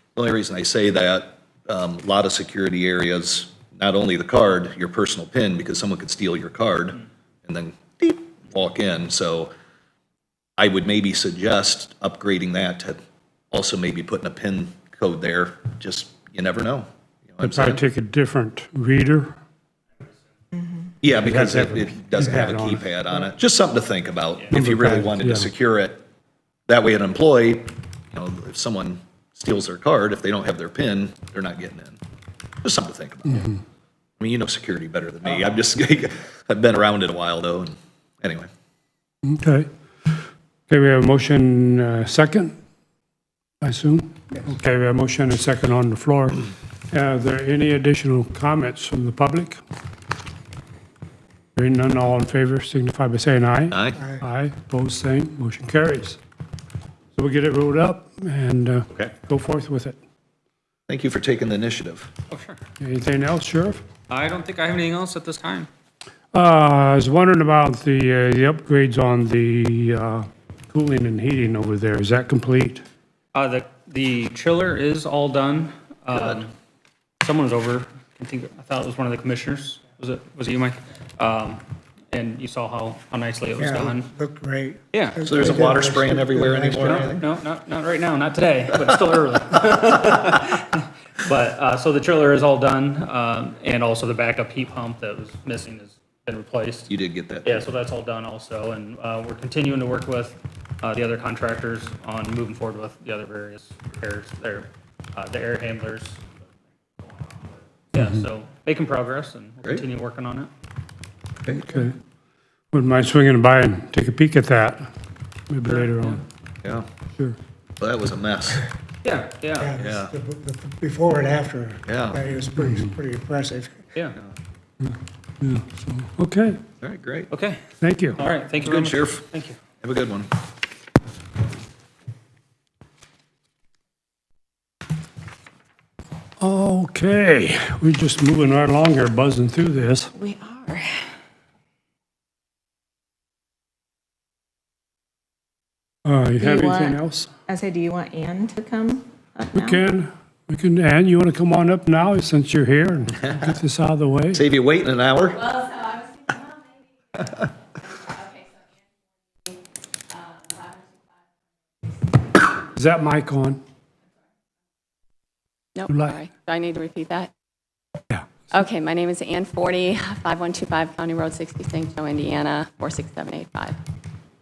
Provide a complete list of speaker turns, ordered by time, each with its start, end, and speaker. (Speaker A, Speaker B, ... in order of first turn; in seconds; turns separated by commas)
Speaker A: 0.2-9.5, Speaker A: 10.6-13.0, Speaker A: 13.5-17.8, Speaker B: 17.4-19.4, Speaker C: 20.6-20.9, Speaker A: 21.0-26.0, Speaker B: 21.1-23.0, Speaker B: 24.5-25.5, Speaker A: 26.7-32.0, Speaker A: 32.6-33.5, Speaker B: 33.3-33.6, Speaker A: 34.2-38.5, Speaker B: 39.2-39.7, Speaker B: 40.7-42.6, Speaker B: 43.6-49.6, Speaker B: 51.6-56.2, Speaker A: 53.7-54.0, Speaker D: 54.0-54.2, Speaker B: 57.1-60.0, Speaker A: 60.9-62.1, Speaker E: 62.3-62.6, Speaker B: 62.8-63.9, Speaker E: 64.1-65.7, Speaker B: 66.3-72.8, Speaker E: 73.3-76.5, Speaker A: 76.1-76.4, Speaker E: 77.2-84.1, Speaker D: 83.6-87.2, Speaker E: 84.9-85.2, Speaker A: 85.2-87.3, Speaker E: 86.8-96.9, Speaker A: 96.9-97.6, Speaker E: 97.5-106.3, Speaker E: 107.9-110.5, Speaker B: 108.0-108.3, Speaker B: 111.5-112.0, Speaker B: 112.7-114.9, Speaker B: 115.5-116.2, Speaker E: 115.7-116.2, Speaker A: 117.8-118.7, Speaker E: 119.0-119.7, Speaker D: 119.6-123.8, Speaker A: 119.8-120.1, Speaker A: 121.9-122.2, Speaker B: 122.6-122.9, Speaker B: 124.8-126.6, Speaker A: 126.8-127.3, Speaker E: 127.3-127.6, Speaker B: 127.8-128.2, Speaker E: 128.2-129.6, Speaker A: 128.6-129.3, Speaker A: 129.8-130.3, Speaker B: 136.4-140.1, Speaker C: 140.2-141.1, Speaker B: 146.1-147.3, Speaker C: 146.4-149.9, Speaker B: 149.5-154.4, Speaker A: 154.3-155.6, Speaker F: 155.5-157.2, Speaker F: 157.8-158.6, Speaker F: 160.1-160.8, Speaker B: 162.8-163.6, Speaker F: 165.8-167.3, Speaker B: 165.9-166.3, Speaker F: 168.5-173.8